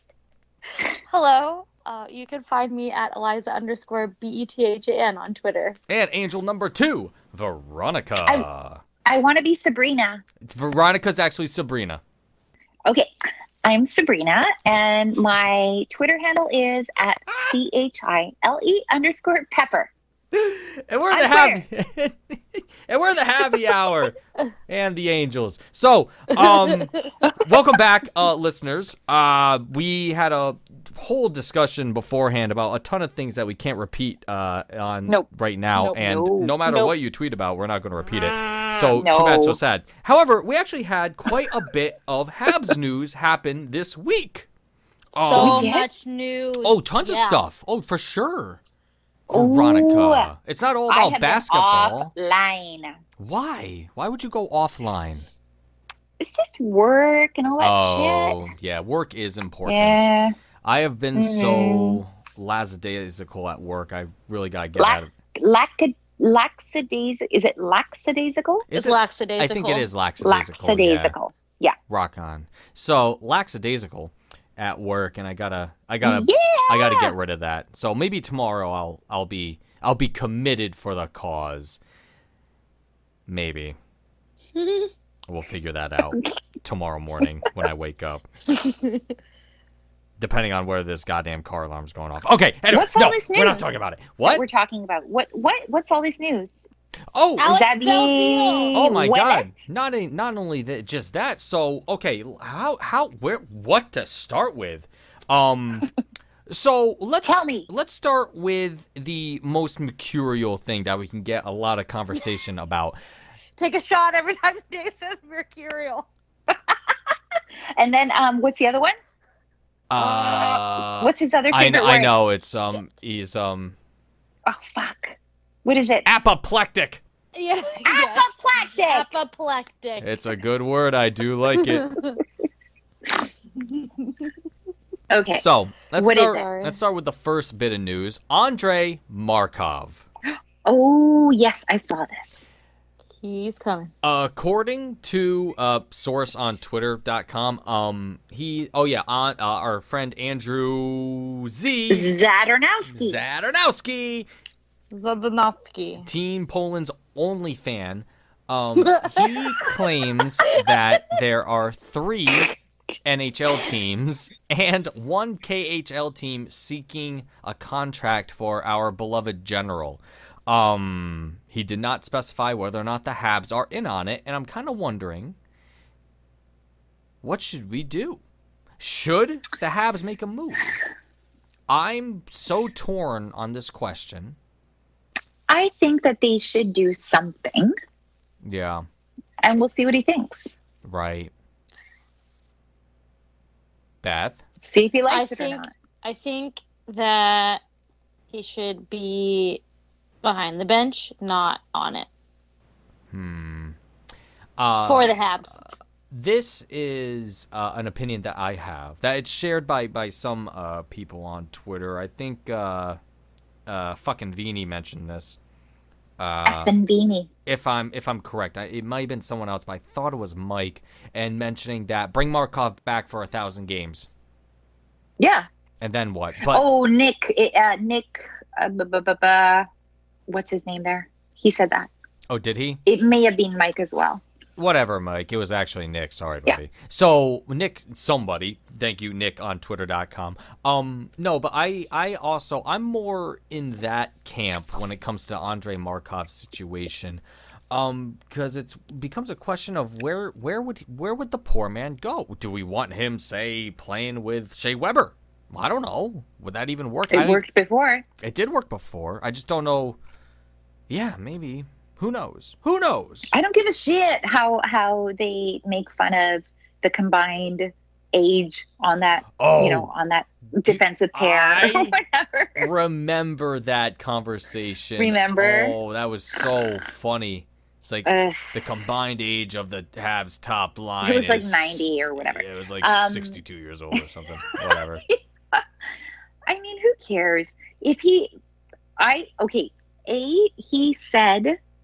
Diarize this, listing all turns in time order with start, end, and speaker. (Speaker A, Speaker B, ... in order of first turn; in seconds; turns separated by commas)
Speaker A: 0.9-5.8, Speaker B: 5.9-8.8, Speaker C: 9.1-10.2, Speaker B: 10.4-12.0, Speaker C: 13.6-19.9, Speaker B: 20.3-44.5, Speaker C: 21.1-21.6, Speaker C: 35.1-36.9, Speaker C: 38.9-39.6, Speaker B: 45.1-45.7, Speaker A: 45.2-47.4, Speaker C: 45.3-45.9, Speaker B: 46.6-48.6, Speaker C: 49.3-50.3, Speaker B: 49.3-52.1, Speaker C: 50.9-53.0, Speaker B: 53.2-55.3, Speaker C: 56.2-58.4, Speaker B: 57.6-60.1, Speaker C: 59.7-60.4, Speaker B: 60.6-65.1, Speaker C: 61.1-62.0, Speaker C: 64.8-68.7, Speaker B: 68.7-71.2, Speaker A: 68.7-69.9, Speaker C: 70.2-71.8, Speaker B: 71.9-81.8, Speaker C: 76.0-77.2, Speaker B: 83.3-83.8, Speaker A: 84.5-84.9, Speaker B: 85.3-88.3, Speaker B: 90.2-94.4, Speaker C: 92.7-96.5, Speaker B: 97.1-97.5, Speaker A: 97.4-98.8, Speaker C: 97.4-99.5, Speaker B: 98.7-105.9, Speaker B: 106.5-113.0, Speaker C: 107.2-107.7, Speaker A: 113.6-116.1, Speaker C: 116.5-117.1, Speaker C: 117.8-119.0, Speaker B: 119.9-123.8, Speaker C: 120.2-122.2, Speaker A: 120.3-120.5, Speaker C: 124.5-126.1, Speaker B: 126.0-127.0, Speaker A: 127.3-130.2, Speaker C: 127.8-129.2, Speaker B: 130.0-132.0, Speaker A: 131.6-132.2, Speaker C: 135.1-136.5, Speaker B: 135.3-140.1, Speaker A: 136.3-136.8, Speaker C: 140.3-142.4, Speaker A: 143.2-143.9, Speaker B: 144.0-152.2, Speaker C: 151.9-153.2, Speaker B: 152.9-154.3, Speaker A: 154.9-156.1, Speaker B: 156.0-162.5, Speaker A: 158.8-159.7, Speaker B: 163.0-175.4, Speaker B: 177.2-178.2, Speaker B: 178.8-180.9, Speaker B: 181.7-184.4, Speaker C: 185.5-187.7, Speaker B: 188.4-188.8, Speaker C: 189.4-190.5, Speaker B: 190.8-191.3, Speaker B: 194.0-194.4, Speaker C: 194.6-195.7, Speaker A: 195.1-197.6, Speaker A: 198.3-199.6, Speaker A: 200.2-202.1, Speaker B: 203.1-203.8, Speaker B: 204.6-205.2, Speaker A: 204.8-205.6, Speaker B: 206.1-213.0, Speaker B: 213.7-215.4, Speaker B: 216.2-216.7, Speaker C: 216.5-217.3, Speaker B: 217.5-224.1, Speaker C: 225.2-225.5, Speaker B: 225.8-226.7, Speaker C: 226.4-229.7, Speaker C: 230.3-231.9, Speaker B: 232.3-232.8, Speaker C: 232.9-234.2, Speaker B: 234.6-257.4, Speaker C: 257.1-258.1, Speaker B: 258.2-260.0, Speaker B: 260.9-263.3, Speaker C: 263.3-272.7, Speaker B: 269.4-269.9, Speaker B: 270.6-272.0, Speaker B: 272.6-285.0, Speaker C: 275.0-275.8, Speaker C: 278.1-278.6, Speaker C: 281.0-283.4, Speaker C: 284.5-285.6, Speaker C: 286.5-288.3, Speaker C: 289.0-291.6